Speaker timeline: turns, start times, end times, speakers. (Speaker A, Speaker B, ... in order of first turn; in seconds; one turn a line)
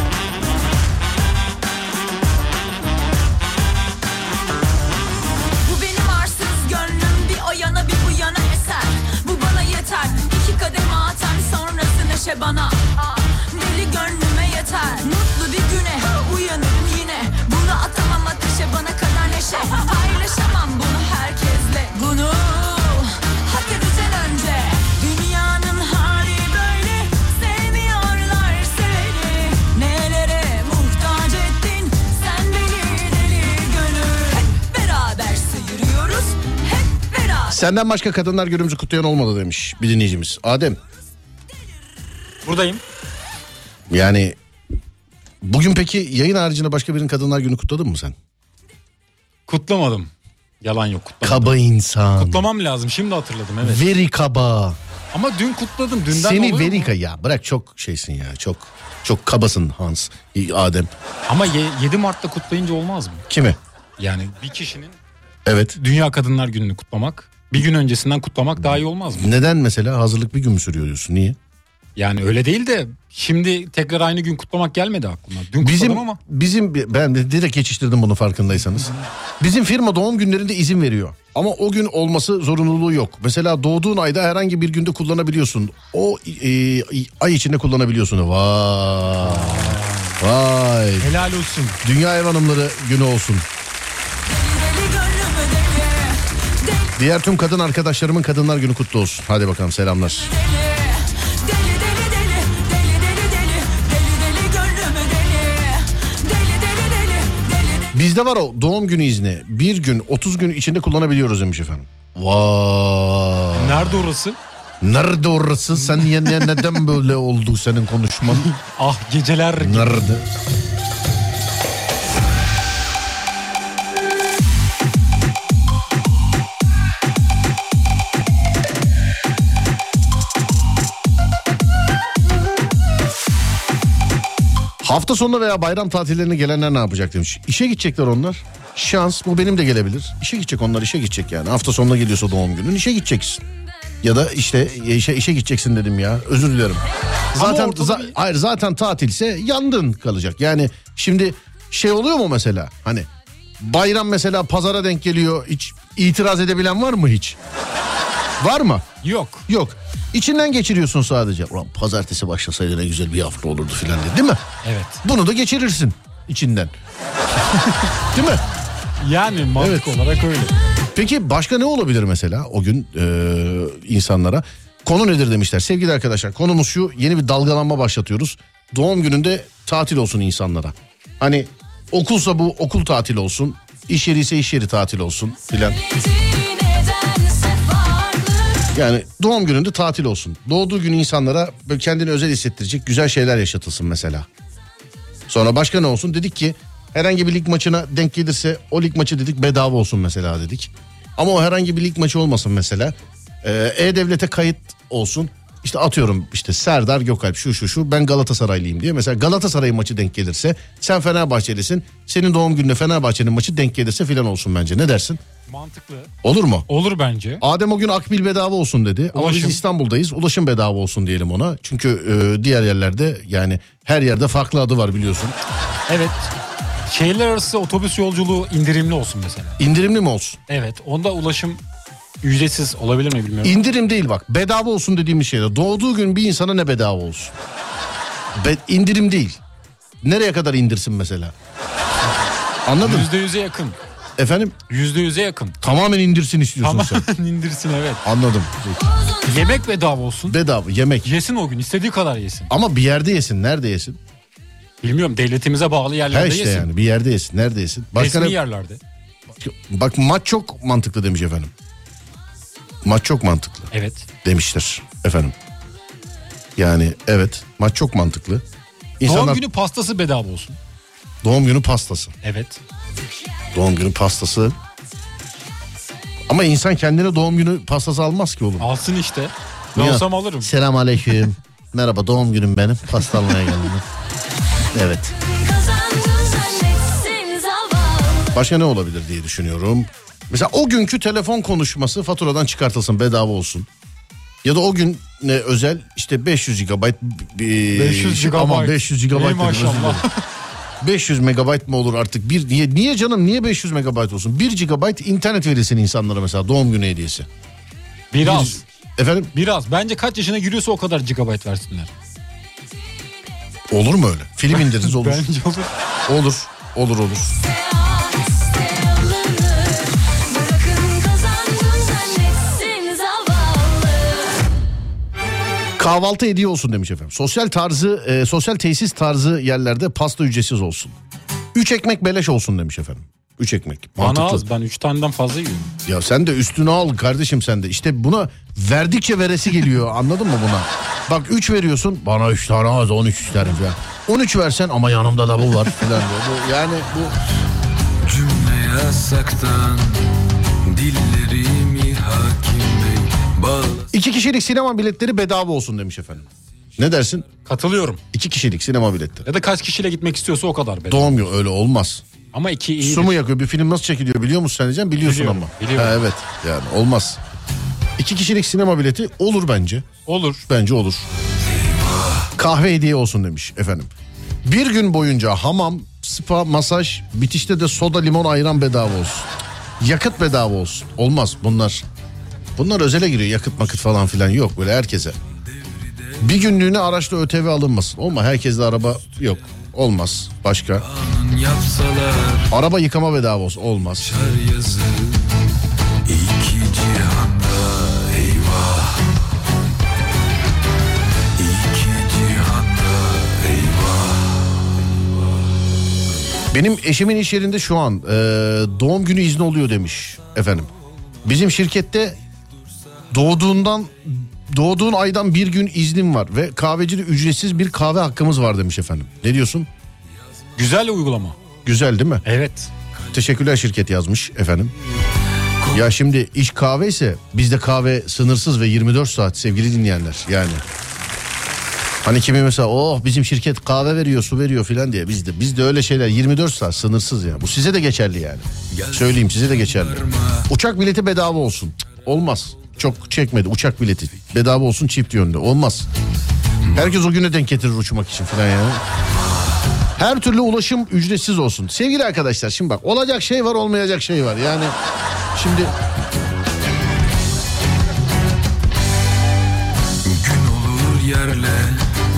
Speaker A: 5.6-37.6
Speaker B: 37.5-40.8
Speaker C: 42.4-42.8
Speaker B: 43.9-44.4
Speaker B: 45.4-48.1
Speaker C: 49.5-51.5
Speaker B: 51.2-52.5
Speaker C: 52.2-53.9
Speaker B: 53.6-54.8
Speaker C: 55.1-56.9
Speaker B: 56.1-60.9
Speaker C: 61.3-63.2
Speaker B: 63.3-63.6
Speaker C: 64.0-65.0
Speaker B: 65.5-65.8
Speaker C: 65.8-69.3
Speaker B: 69.1-71.4
Speaker C: 72.0-76.2
Speaker B: 75.6-91.1
Speaker C: 89.2-90.2
Speaker C: 91.0-91.8
Speaker B: 91.8-93.5
Speaker A: 94.3-96.9
Speaker B: 97.0-100.3
Speaker A: 100.2-107.9
Speaker B: 107.9-114.0
Speaker C: 113.5-114.4
Speaker B: 114.8-118.5
Speaker C: 115.8-116.6
Speaker C: 118.2-120.2
Speaker B: 119.6-120.3
Speaker B: 134.8-143.4
Speaker B: 144.0-153.1
Speaker C: 147.3-148.2
Speaker B: 153.6-157.4
Speaker B: 158.4-158.9
Speaker C: 159.0-159.4
Speaker B: 159.5-164.4
Speaker C: 164.6-165.0
Speaker B: 165.0-166.7
Speaker B: 168.1-168.4
Speaker C: 169.0-170.5
Speaker B: 169.6-169.9
Speaker B: 170.9-185.8
Speaker D: 185.8-188.7
Speaker B: 188.7-194.3
Speaker B: 195.3-215.2
Speaker C: 215.5-216.1
Speaker B: 216.2-216.7
Speaker C: 216.7-217.4
Speaker B: 217.4-225.3
Speaker C: 219.1-219.6
Speaker C: 225.9-226.3
Speaker C: 226.9-229.6
Speaker B: 229.6-230.4
Speaker C: 230.5-231.6
Speaker C: 232.2-233.6
Speaker B: 233.4-237.3
Speaker B: 238.3-239.4
Speaker B: 240.0-241.3
Speaker B: 242.7-243.1
Speaker C: 242.8-243.8
Speaker B: 244.2-244.6
Speaker C: 244.7-245.6
Speaker B: 245.6-247.1
Speaker C: 246.6-248.0
Speaker B: 248.0-248.9
Speaker C: 249.2-250.4
Speaker B: 250.3-251.1
Speaker C: 251.0-252.5
Speaker B: 252.5-254.0
Speaker C: 254.8-256.7
Speaker B: 256.1-258.4
Speaker C: 257.9-258.8
Speaker B: 259.4-261.5
Speaker B: 262.8-263.7
Speaker C: 263.7-264.1
Speaker B: 264.2-265.3
Speaker B: 266.6-268.4
Speaker B: 269.0-269.4
Speaker C: 269.0-270.6
Speaker B: 271.2-272.1
Speaker C: 272.2-272.6
Speaker B: 273.5-274.6
Speaker B: 276.3-278.7
Speaker C: 278.6-280.5
Speaker B: 279.7-283.8
Speaker B: 284.7-285.1
Speaker D: 285.1-288.4
Speaker B: 288.3-293.7
Speaker B: 294.4-300.0
Speaker C: 297.7-300.2
Speaker B: 300.8-307.3
Speaker C: 308.1-308.6
Speaker B: 308.2-309.3
Speaker C: 309.3-311.9
Speaker B: 313.7-315.2
Speaker C: 314.5-315.7
Speaker B: 316.1-317.4
Speaker D: 317.4-324.4
Speaker B: 325.8-330.9
Speaker B: 331.5-334.4
Speaker C: 334.0-335.7
Speaker B: 335.9-347.1
Speaker E: 348.0-350.1
Speaker E: 350.6-353.9
Speaker B: 353.9-357.3
Speaker C: 357.4-358.0
Speaker B: 358.1-359.2
Speaker C: 359.2-361.2
Speaker B: 360.9-362.0
Speaker C: 362.3-363.2
Speaker B: 362.8-367.2
Speaker C: 365.0-366.0
Speaker B: 368.0-369.9
Speaker C: 370.1-370.4
Speaker B: 370.5-371.1
Speaker E: 371.5-372.3
Speaker B: 372.4-373.9
Speaker B: 374.4-379.3
Speaker B: 379.8-381.8
Speaker B: 382.6-385.2
Speaker E: 385.7-386.2
Speaker B: 386.2-390.9
Speaker E: 390.8-392.5
Speaker B: 392.5-394.1
Speaker E: 394.0-395.3
Speaker E: 396.1-399.1
Speaker E: 401.4-404.5
Speaker B: 406.5-410.7
Speaker B: 411.2-412.2
Speaker B: 413.1-419.7
Speaker C: 420.6-421.4
Speaker B: 421.6-422.2
Speaker C: 422.2-422.7
Speaker B: 423.1-424.7
Speaker B: 425.7-430.6
Speaker B: 432.0-445.9
Speaker E: 438.7-440.5
Speaker B: 446.7-448.8
Speaker B: 450.0-454.8
Speaker B: 455.3-455.7
Speaker E: 460.0-461.8